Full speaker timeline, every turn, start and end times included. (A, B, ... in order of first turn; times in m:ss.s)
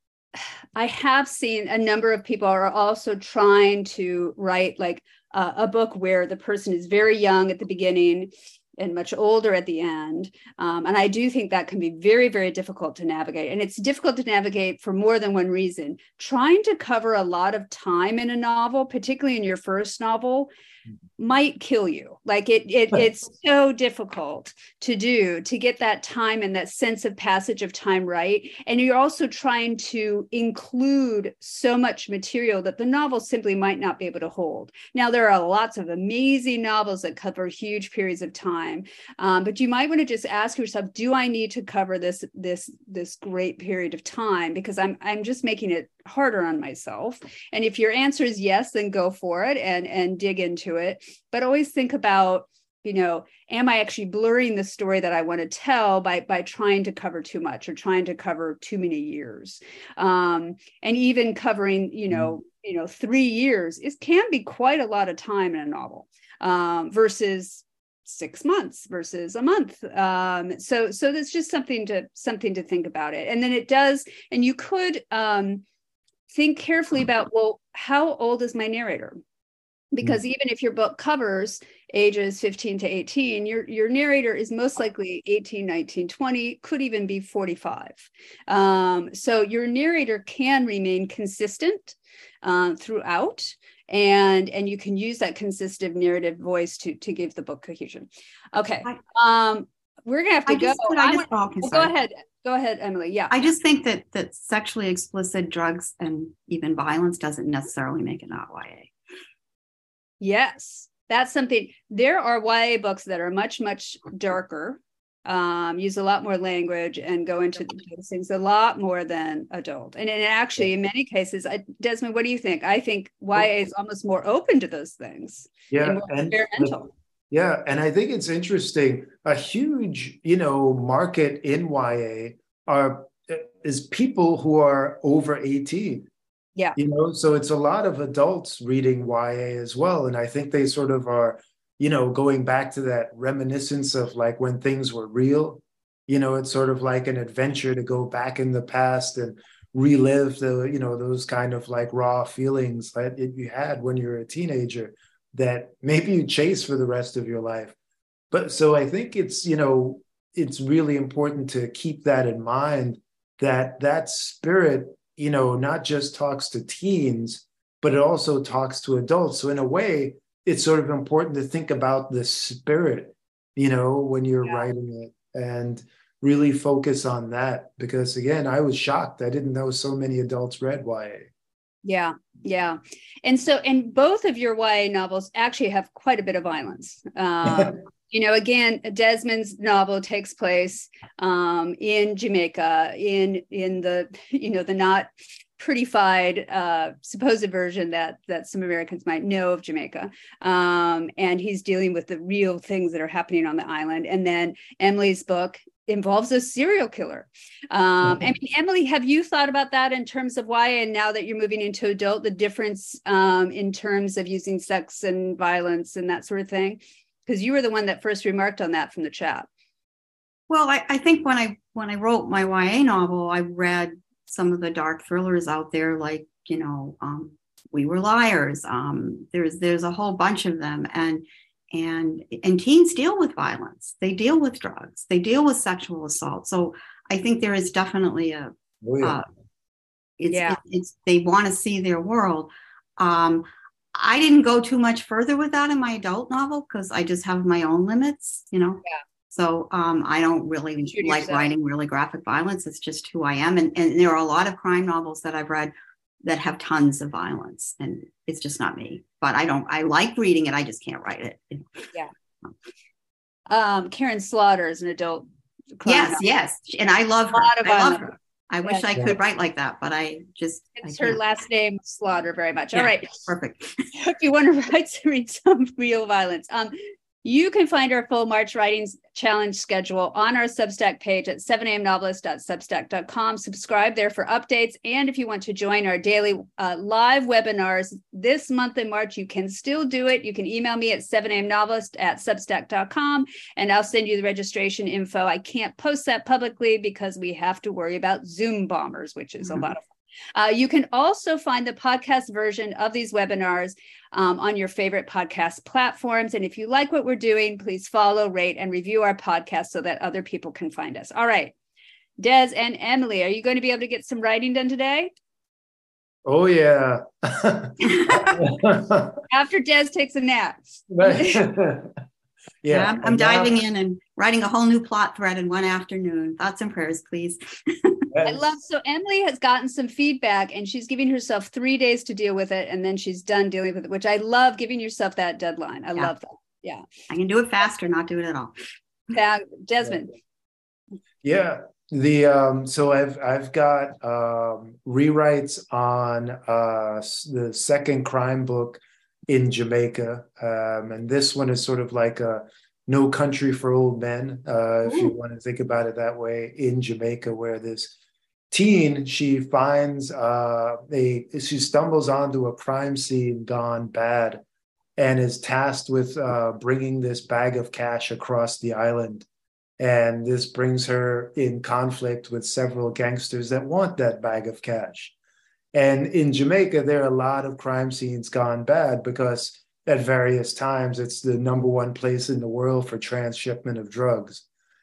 0:00.4-0:20.5 A
0:21.2-1:15.6 A
1:16.3-1:19.2 A
1:19.9-1:43.4 A
1:40.5-1:41.9 B
1:43.3-1:48.9 B
1:50.2-2:06.9 A
2:05.7-2:06.8 C
2:07.3-2:16.1 C
2:16.8-2:37.8 C
2:38.3-3:01.3 C
3:01.8-3:39.5 A
3:07.5-3:07.7 C
3:40.5-3:59.2 B
3:58.8-3:59.2 C
4:00.2-4:21.9 B
4:00.3-4:00.6 A
4:10.9-4:11.5 A
4:23.5-4:26.2 A
4:25.9-4:31.2 B
4:27.3-4:28.1 A
4:30.8-4:33.2 A
4:32.7-4:33.8 B
4:34.0-4:59.8 A
5:00.4-5:11.5 A
5:12.2-5:15.1 A
5:16.2-5:19.2 C
5:19.3-5:21.4 A
5:20.9-5:21.9 C
5:22.6-5:23.5 C
5:22.7-5:28.1 B
5:28.1-5:28.6 C
5:28.3-5:36.8 A
5:37.1-5:38.6 B
5:39.1-5:40.2 A
5:41.2-5:58.0 C
5:58.5-6:04.4 C
6:05.0-6:09.3 C
6:09.8-6:15.1 C
6:15.7-6:24.4 C